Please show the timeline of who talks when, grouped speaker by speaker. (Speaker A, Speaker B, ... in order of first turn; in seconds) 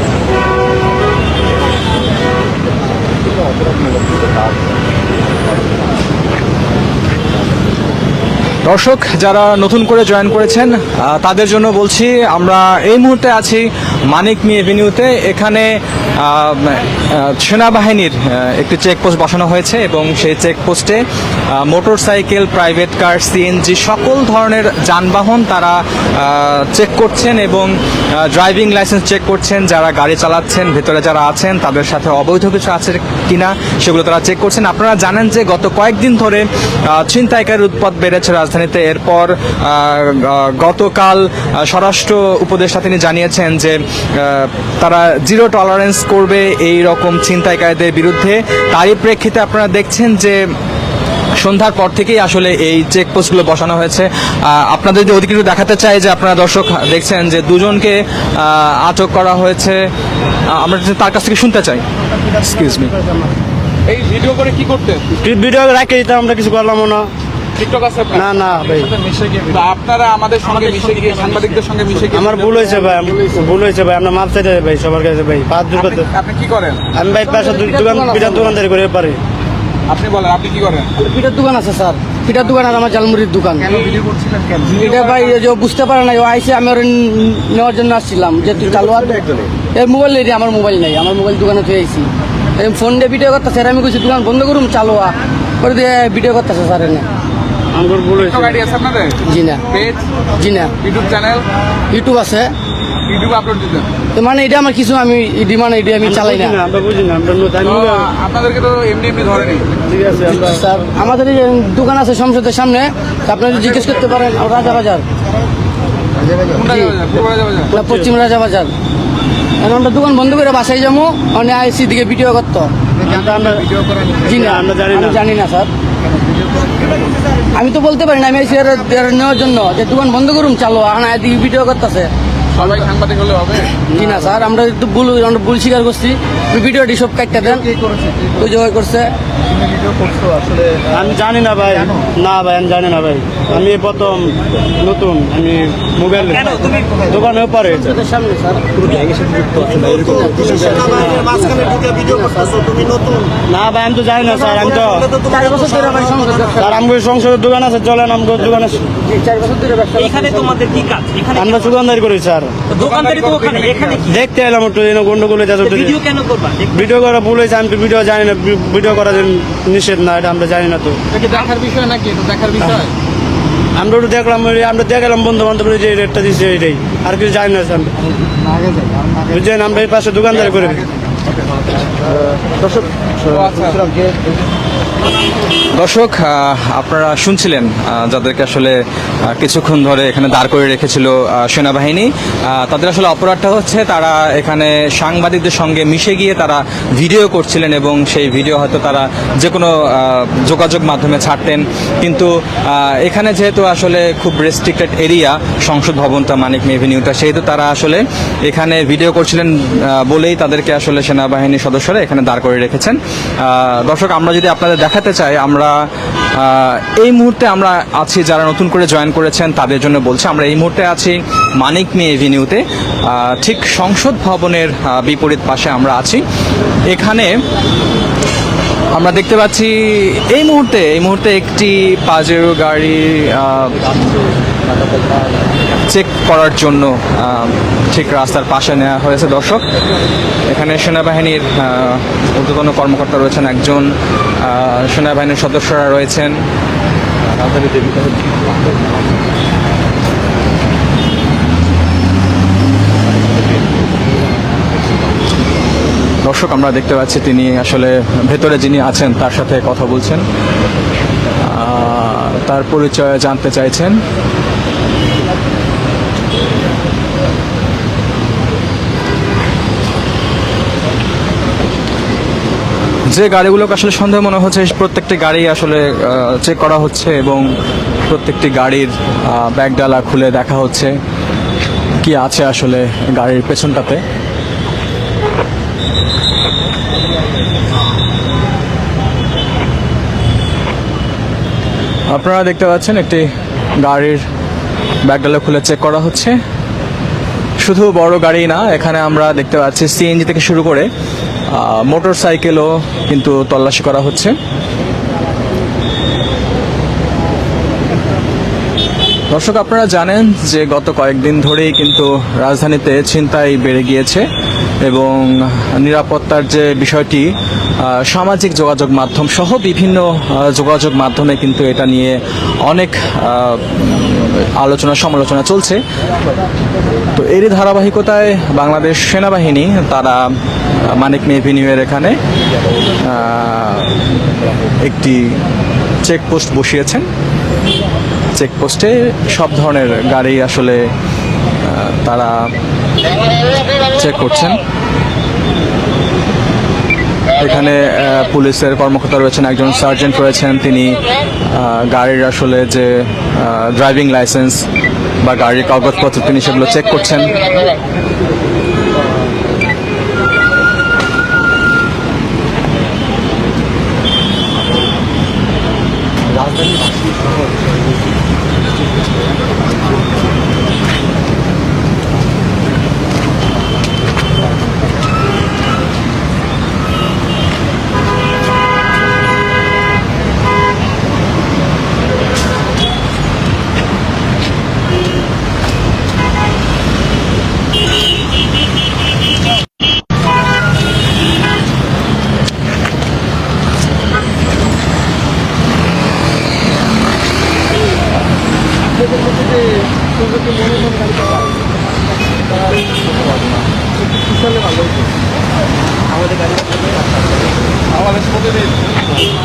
Speaker A: 8.7-21.0, 21.5-50.4, 51.4-59.9, 60.5-63.0, 185.8-215.7, 216.4-226.2, 226.9-227.4, 228.9-233.9, 235.9-239.6, 240.4-246.4, 247.5-248.1, 256.2-260.3, 261.4-264.0, 273.1-277.5, 278.1-281.0, 282.0-284.0, 292.1-293.3, 293.8-294.3, 295.1-296.4, 297.6-300.9, 301.5-304.4, 309.3-314.3, 314.9-325.8, 327.1-332.2, 333.0-334.0, 334.8-335.4, 336.1-337.1, 338.4-340.8, 341.6-342.5, 343.9-344.6, 347.4-354.6, 355.2-357.5
Speaker B: 63.9-65.1, 67.6-72.6, 76.0-76.9, 79.9-80.9, 83.7-85.3, 98.2-100.2, 100.8-101.5, 103.1-103.9, 107.7-109.7, 116.5-117.7, 132.5-133.8, 162.7-164.0, 171.1-172.9, 183.2-183.9, 400.6-401.1, 404.3-405.1, 407.9-408.9
Speaker C: 65.1-67.1, 68.1-69.0, 72.1-76.1, 77.0-79.2, 97.8-98.6, 106.0-108.1, 109.8-110.7, 117.7-118.1, 123.1-123.7, 124.2-125.2, 140.9-148.0, 153.4-155.2, 156.5-158.9, 161.3-162.6, 164.0-166.0, 166.7-171.0, 173.8-177.9, 179.2-180.9
Speaker D: 77.4-78.5, 81.0-84.0, 84.6-97.1, 99.2-99.7, 100.3-100.7, 101.9-102.5, 104.2-106.6, 110.4-115.1, 116.6-117.0, 117.7-118.7, 119.6-122.7, 124.2-125.7, 127.5-132.1, 133.9-139.1, 147.9-153.1, 155.2-156.7, 159.1-160.6
Speaker E: 146.6-146.8, 160.0-161.5, 162.9-164.0, 165.8-166.7